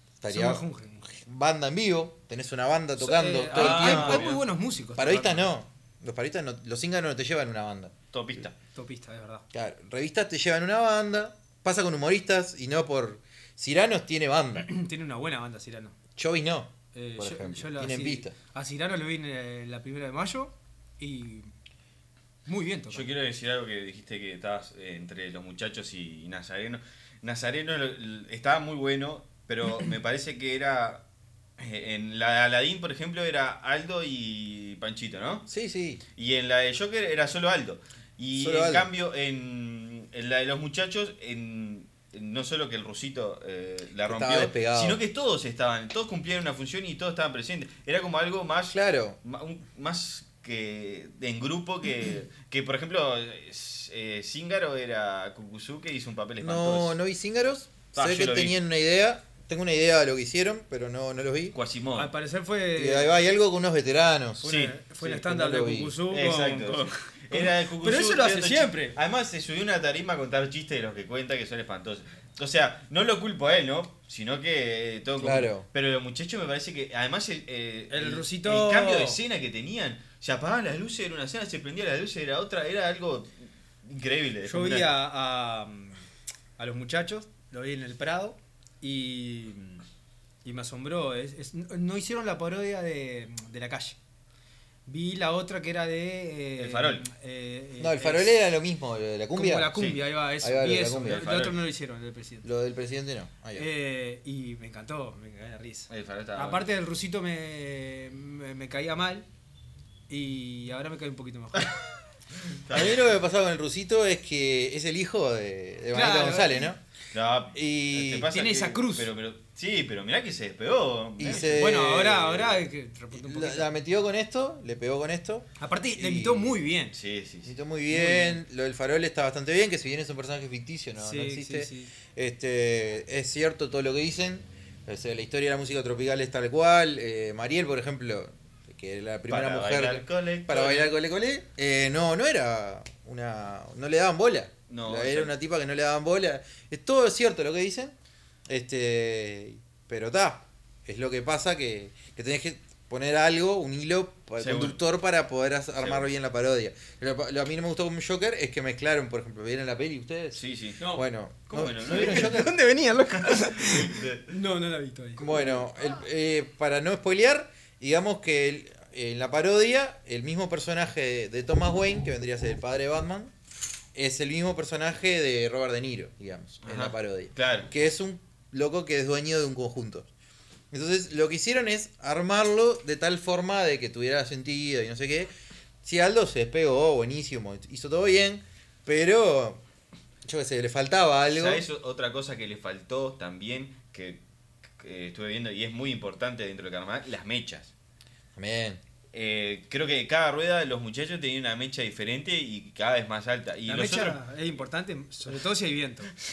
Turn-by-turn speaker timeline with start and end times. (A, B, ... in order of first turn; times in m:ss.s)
0:00.2-0:04.4 A
0:00.3-0:01.1 B
0:03.0-0:05.4 B
0:03.5-0:04.4 C
0:05.0-0:07.9 A
0:08.1-0:08.5 C
0:08.7-0:09.4 B
0:09.5-0:14.7 A
0:14.6-0:15.9 B
0:16.2-0:18.3 A
0:16.9-0:21.5 B
0:22.4-0:23.1 B
0:22.9-0:31.0 C
0:31.6-0:35.4 C
0:35.5-0:36.0 A
0:36.2-0:57.0 C
0:38.3-0:38.9 A
0:44.0-0:45.0 A
0:48.7-0:49.2 A
0:56.4-1:01.6 A
0:57.9-0:58.6 C
1:01.5-1:02.1 C
1:01.9-1:03.1 B
1:02.8-1:04.4 A
1:04.4-1:09.0 B
1:04.4-1:04.8 C
1:05.0-1:06.0 A
1:06.1-1:23.3 C
1:15.2-1:15.6 A
1:17.9-1:19.2 B
1:23.8-1:24.9 C
1:24.4-1:26.1 B
1:26.6-1:29.8 B
1:30.4-1:34.0 B
1:34.9-1:38.4 B
1:36.6-1:37.1 C
1:37.8-1:39.7 A
1:39.3-1:42.4 B
1:39.7-1:40.0 C
1:40.4-1:41.3 A
1:41.0-1:41.6 C
1:42.4-1:43.7 A
1:43.6-1:49.2 B
1:45.9-1:46.6 C
1:50.1-1:51.7 B
1:52.5-1:53.1 C
1:52.7-1:56.8 A
1:55.9-1:56.7 B
1:57.1-2:01.6 C
1:57.5-1:58.3 A
1:58.3-1:59.1 B
2:01.2-2:02.5 A
2:01.2-2:03.7 B
2:03.1-2:06.6 A
2:05.6-2:06.9 B
2:06.9-2:07.5 C
2:07.4-2:27.9 A
2:07.9-2:08.4 B
2:11.0-2:11.9 B
2:19.3-2:20.9 C
2:24.7-2:25.3 C
2:28.5-2:42.5 A
2:34.4-2:34.8 C
2:35.8-2:36.1 C
2:40.4-2:40.8 C
2:40.8-2:41.1 B
2:41.5-2:42.5 C
2:41.8-2:45.6 B
2:43.2-2:44.3 C
2:45.2-2:53.3 A
2:53.9-3:00.1 A
2:56.6-2:57.7 C
3:00.7-3:05.3 A
3:05.8-3:09.6 A
3:10.2-3:11.6 A
3:11.3-3:14.2 C
3:14.8-3:17.7 C
3:18.3-3:18.8 A
3:19.1-3:24.2 C
3:23.7-3:26.1 B